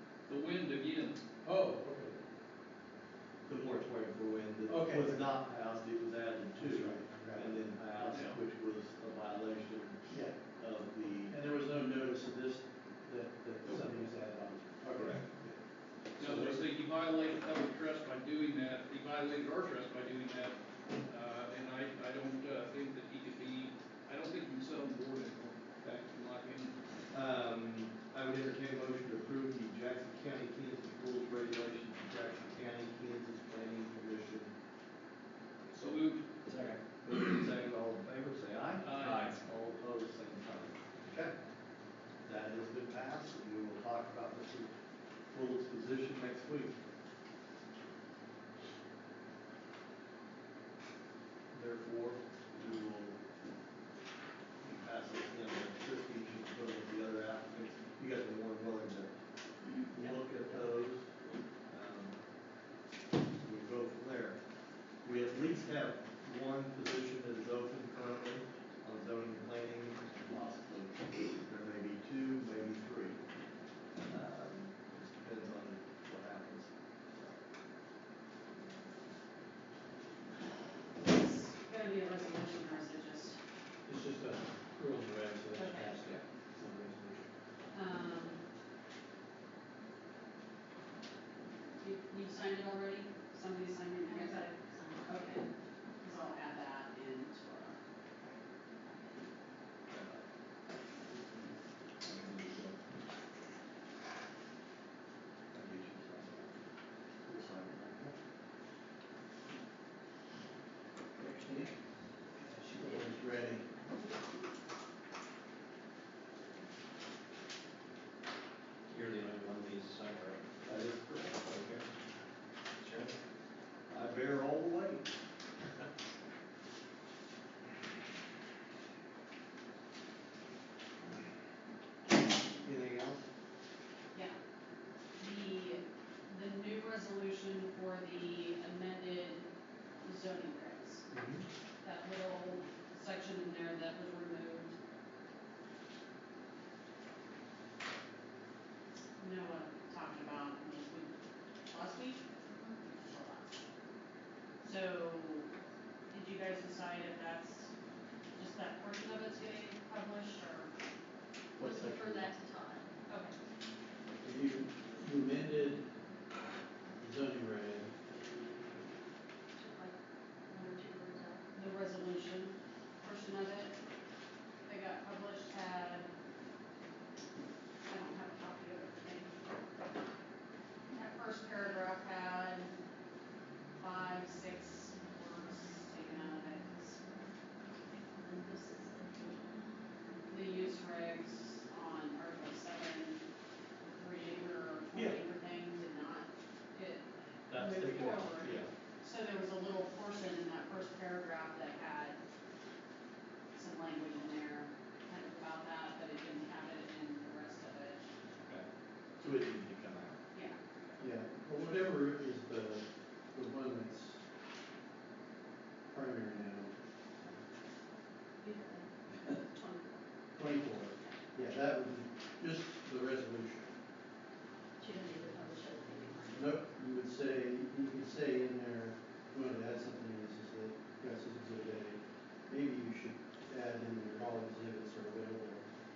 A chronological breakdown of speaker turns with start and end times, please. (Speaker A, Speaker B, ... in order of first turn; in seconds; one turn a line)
Speaker A: 0.3-1.2
Speaker B: 1.4-2.2
Speaker C: 3.5-11.3
Speaker B: 4.7-5.3
Speaker B: 6.6-7.6
Speaker A: 8.0-8.4
Speaker B: 10.1-10.4
Speaker B: 11.3-15.6
Speaker C: 15.0-15.2
Speaker B: 16.1-16.6
Speaker A: 16.2-26.7
Speaker C: 27.1-34.5
Speaker A: 35.7-36.3
Speaker C: 36.5-41.3
Speaker A: 38.8-39.3
Speaker D: 39.0-39.4
Speaker C: 42.2-44.7
Speaker C: 45.3-46.7
Speaker C: 51.5-53.2
Speaker C: 54.6-59.2
Speaker C: 59.9-61.1
Speaker C: 61.7-62.2
Speaker C: 63.4-64.4
Speaker C: 65.0-73.2
Speaker C: 74.0-77.4
Speaker E: 81.0-83.4
Speaker B: 83.8-87.3
Speaker E: 85.5-86.0
Speaker E: 87.7-88.4
Speaker E: 91.8-95.5
Speaker F: 94.1-95.4
Speaker E: 96.0-97.8
Speaker C: 99.9-100.2
Speaker C: 102.0-102.8
Speaker C: 105.5-106.6
Speaker C: 107.2-108.1
Speaker B: 111.2-111.7
Speaker B: 112.4-113.7
Speaker D: 118.9-120.6
Speaker C: 120.6-121.8
Speaker D: 122.8-123.1
Speaker C: 123.9-125.1
Speaker C: 132.6-133.2
Speaker E: 135.2-139.5
Speaker E: 140.0-141.1
Speaker C: 141.1-141.4
Speaker E: 141.8-144.7
Speaker E: 149.2-151.1
Speaker E: 151.7-152.2
Speaker F: 152.5-152.8
Speaker E: 152.8-153.7
Speaker E: 154.6-155.5
Speaker E: 156.1-157.7
Speaker E: 158.3-160.7
Speaker B: 161.6-162.3
Speaker F: 161.6-163.0
Speaker E: 163.1-163.4
Speaker B: 164.2-165.9
Speaker B: 167.0-167.9
Speaker F: 169.6-171.5
Speaker E: 171.5-173.8
Speaker E: 174.7-176.1
Speaker E: 177.8-179.3
Speaker E: 180.9-182.7
Speaker E: 183.8-187.0
Speaker F: 187.9-189.5
Speaker E: 190.3-193.2
Speaker E: 193.9-202.2
Speaker C: 194.9-195.2
Speaker C: 197.5-198.7
Speaker E: 203.5-208.0
Speaker C: 209.2-210.2
Speaker B: 211.0-214.2
Speaker B: 215.9-216.7
Speaker F: 218.4-220.0
Speaker B: 220.3-223.7
Speaker F: 224.8-226.5
Speaker B: 226.3-235.6